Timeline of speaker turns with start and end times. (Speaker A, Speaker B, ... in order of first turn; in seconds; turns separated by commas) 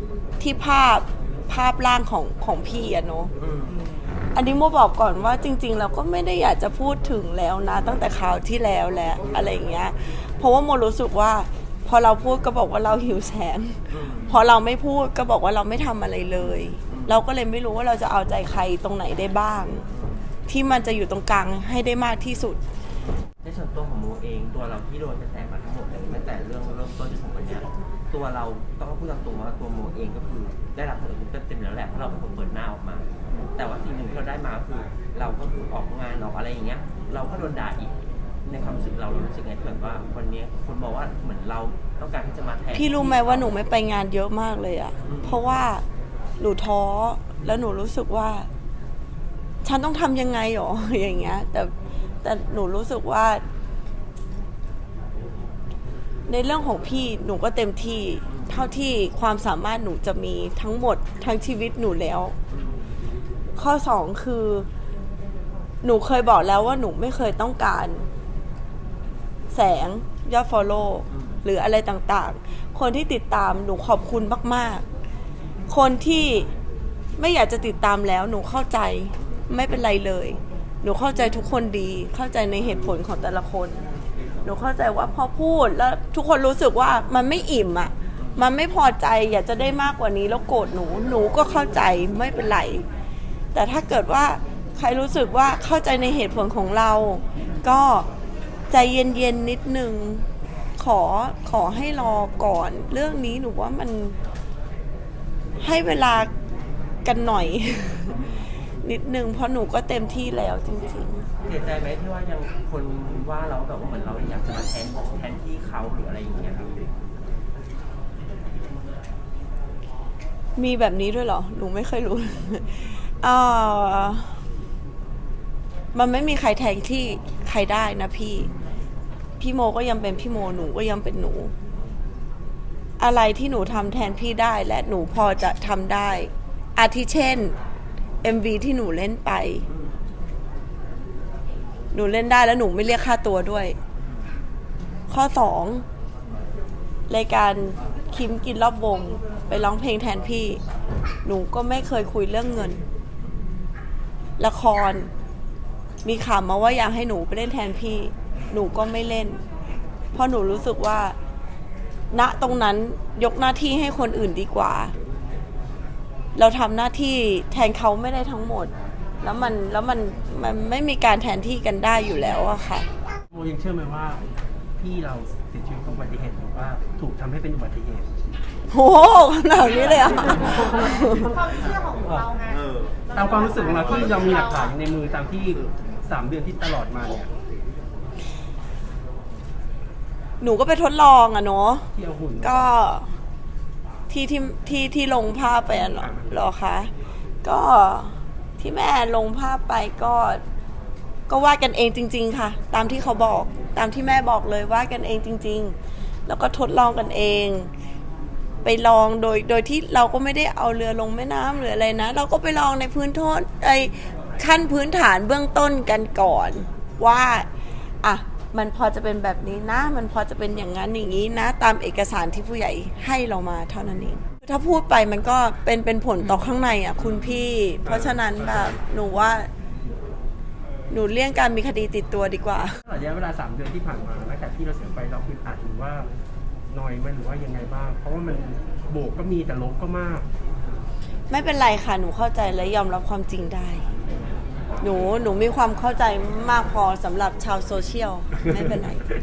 Speaker A: 0.4-3.3, Speaker B: 3.4-3.8, Speaker A: 4.3-19.9, Speaker B: 13.9-14.4, Speaker B: 16.9-17.2, Speaker B: 19.9-20.3, Speaker A: 20.5-22.6, Speaker B: 23.4-37.9, Speaker B: 38.5-43.6, Speaker A: 42.7-45.8, Speaker B: 45.0-45.4, Speaker A: 46.4-48.5, Speaker A: 49.6-51.7, Speaker A: 52.2-53.4, Speaker A: 56.3-62.3, Speaker B: 62.5-62.8, Speaker A: 63.6-64.7, Speaker A: 65.8-68.1, Speaker A: 69.5-74.8, Speaker B: 71.1-71.4, Speaker A: 75.7-76.5, Speaker A: 77.2-83.8, Speaker A: 84.4-92.8, Speaker B: 88.2-88.4, Speaker A: 93.5-98.1, Speaker A: 98.7-104.2, Speaker A: 105.6-106.3, Speaker A: 107.0-108.2, Speaker B: 108.2-108.5, Speaker A: 108.8-111.3, Speaker B: 111.5-116.7, Speaker A: 120.6-124.4, Speaker A: 125.9-128.5, Speaker A: 129.4-131.5, Speaker A: 133.0-137.5, Speaker A: 138.2-139.7, Speaker A: 141.9-143.8, Speaker A: 145.1-145.8, Speaker A: 147.1-150.6, Speaker A: 151.2-152.8, Speaker A: 154.4-155.1, Speaker A: 156.0-159.4, Speaker A: 160.1-161.2, Speaker A: 162.1-164.9, Speaker A: 166.3-172.9, Speaker C: 173.3-174.2, Speaker C: 174.8-178.1, Speaker A: 178.7-181.3, Speaker C: 179.9-182.3, Speaker D: 181.5-182.6, Speaker B: 182.6-182.9, Speaker D: 183.1-184.7, Speaker C: 183.1-187.3, Speaker A: 190.4-193.1, Speaker C: 191.9-192.7, Speaker A: 194.1-196.9, Speaker C: 195.9-196.4, Speaker A: 197.4-200.4, Speaker A: 201.3-205.8, Speaker A: 206.3-207.7, Speaker A: 208.6-217.5, Speaker A: 218.0-229.5, Speaker C: 227.8-228.8, Speaker A: 230.9-232.8, Speaker C: 232.8-236.1, Speaker C: 236.7-240.3, Speaker A: 241.3-243.9, Speaker A: 244.8-249.1